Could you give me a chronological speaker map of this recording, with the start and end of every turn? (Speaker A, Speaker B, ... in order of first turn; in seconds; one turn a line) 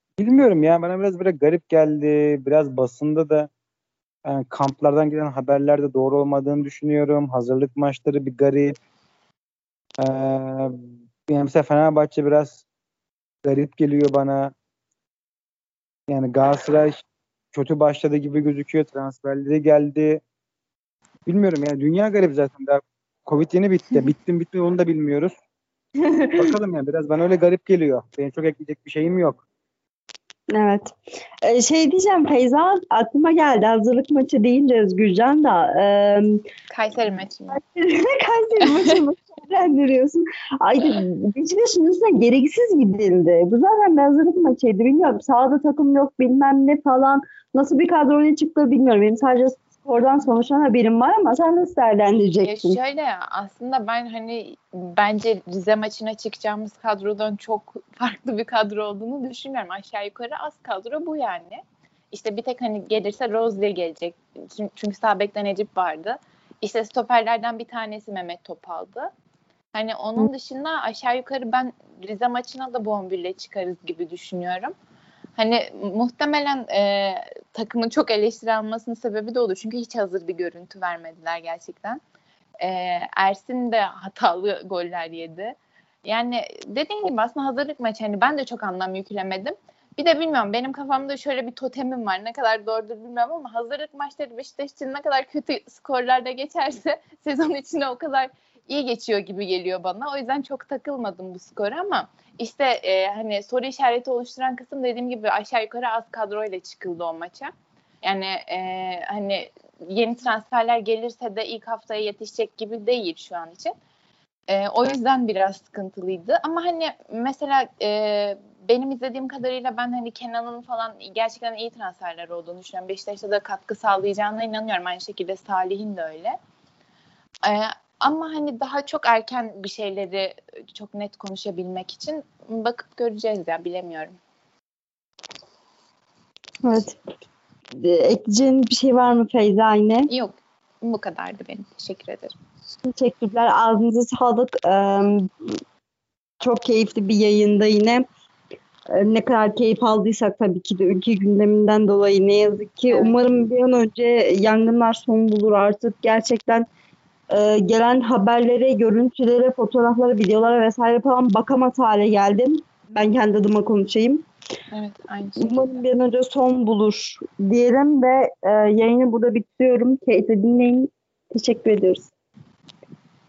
Speaker A: 0.2-3.5
Speaker A: 4.2-8.7
Speaker A: 10.0-12.6
Speaker A: 13.4-14.5
Speaker A: 16.1-17.0
Speaker A: 17.5-20.2
Speaker A: 21.2-25.3
Speaker B: 26.0-26.5
Speaker A: 26.4-29.4
Speaker B: 30.5-36.4
Speaker C: 36.7-37.6
Speaker B: 37.5-52.8
Speaker C: 52.4-69.1
Speaker C: 69.7-74.7
Speaker C: 75.3-82.0
Speaker C: 82.6-107.5
Speaker C: 108.0-113.7
Speaker C: 114.5-126.4
Speaker C: 127.4-134.2
Speaker B: 136.6-137.0
Speaker B: 137.8-140.1
Speaker C: 140.1-142.3
Speaker B: 142.9-145.6
Speaker B: 146.4-148.0
Speaker B: 148.9-156.7
Speaker C: 152.9-153.2
Speaker B: 157.3-164.2
Speaker C: 164.7-165.8
Speaker B: 165.4-172.1